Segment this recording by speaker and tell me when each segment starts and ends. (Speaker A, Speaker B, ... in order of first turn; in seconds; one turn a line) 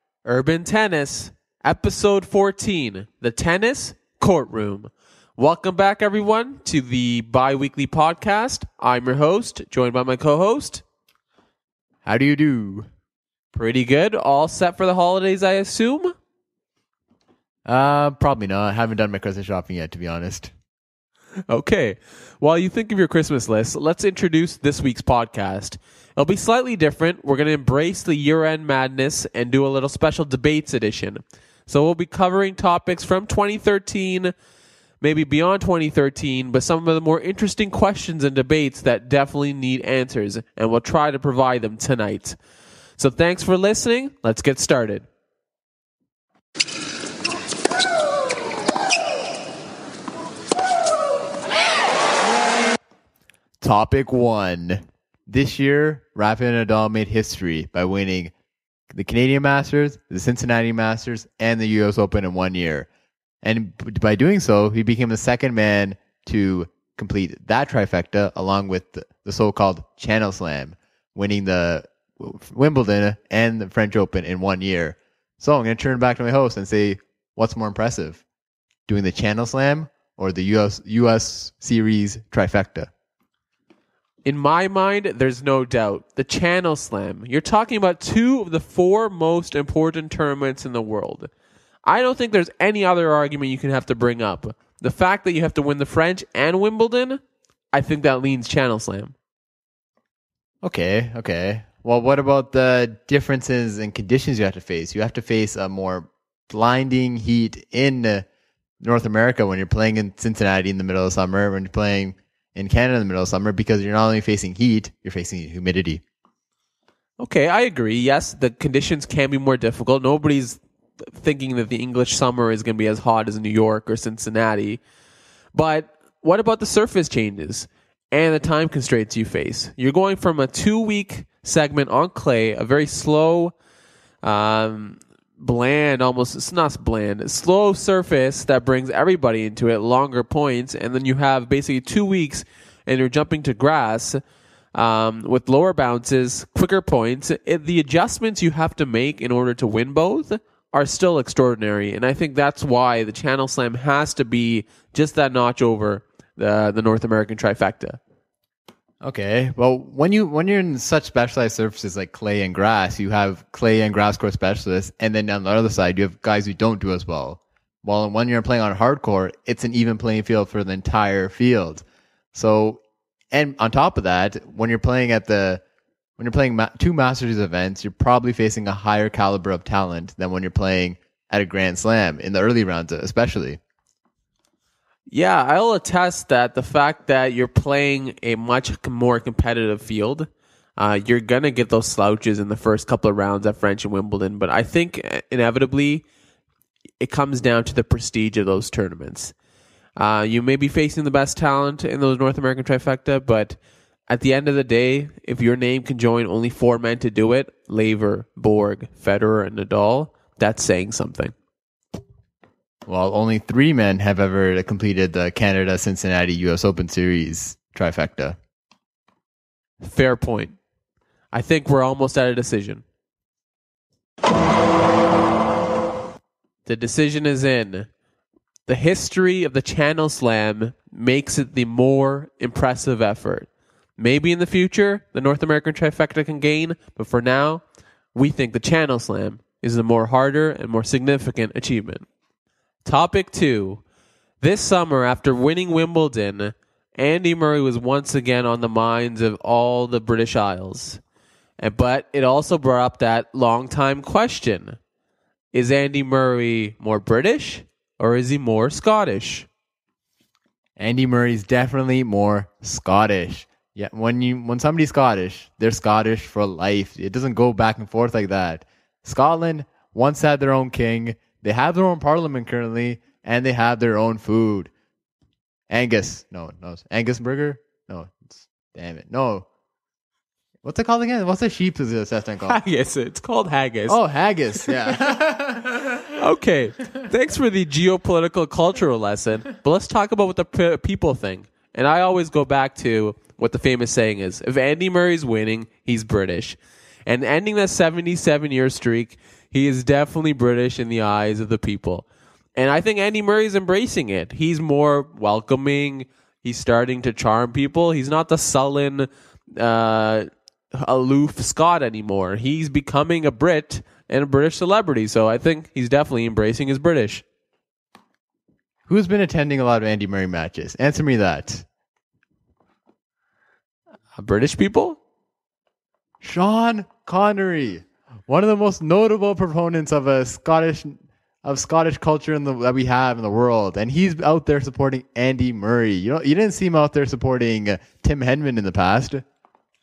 Speaker A: 0.2-10.8
Speaker B: 12.1-12.9
Speaker A: 13.5-16.1
Speaker B: 17.7-20.5
Speaker A: 21.5-34.3
Speaker A: 35.0-42.4
Speaker A: 43.0-45.1
Speaker B: 53.6-58.3
Speaker B: 58.9-62.9
Speaker B: 63.4-78.2
Speaker B: 78.9-82.9
Speaker A: 84.2-91.3
Speaker A: 91.8-97.2
Speaker A: 97.7-99.2
Speaker B: 100.6-108.2
Speaker B: 108.8-116.0
Speaker A: 117.2-124.8
Speaker A: 125.5-133.5
Speaker A: 134.2-144.2
Speaker A: 144.7-158.0
Speaker B: 159.0-175.6
Speaker B: 176.2-183.6
Speaker A: 185.1-196.1
Speaker A: 197.0-199.3
Speaker A: 200.0-203.6
Speaker A: 204.1-211.3
Speaker B: 212.9-218.4
Speaker A: 219.8-220.6
Speaker A: 221.3-222.8
Speaker A: 226.7-227.9
Speaker A: 228.7-237.6
Speaker A: 238.1-242.1
Speaker A: 242.8-243.8
Speaker A: 244.4-251.0
Speaker A: 251.6-254.8
Speaker A: 255.5-259.5
Speaker B: 260.8-274.7
Speaker B: 275.7-279.5
Speaker B: 280.6-282.6
Speaker A: 282.4-284.0
Speaker B: 283.9-285.9
Speaker A: 284.5-285.0
Speaker A: 285.9-317.2
Speaker B: 318.9-321.6
Speaker A: 324.1-325.0
Speaker B: 326.2-339.2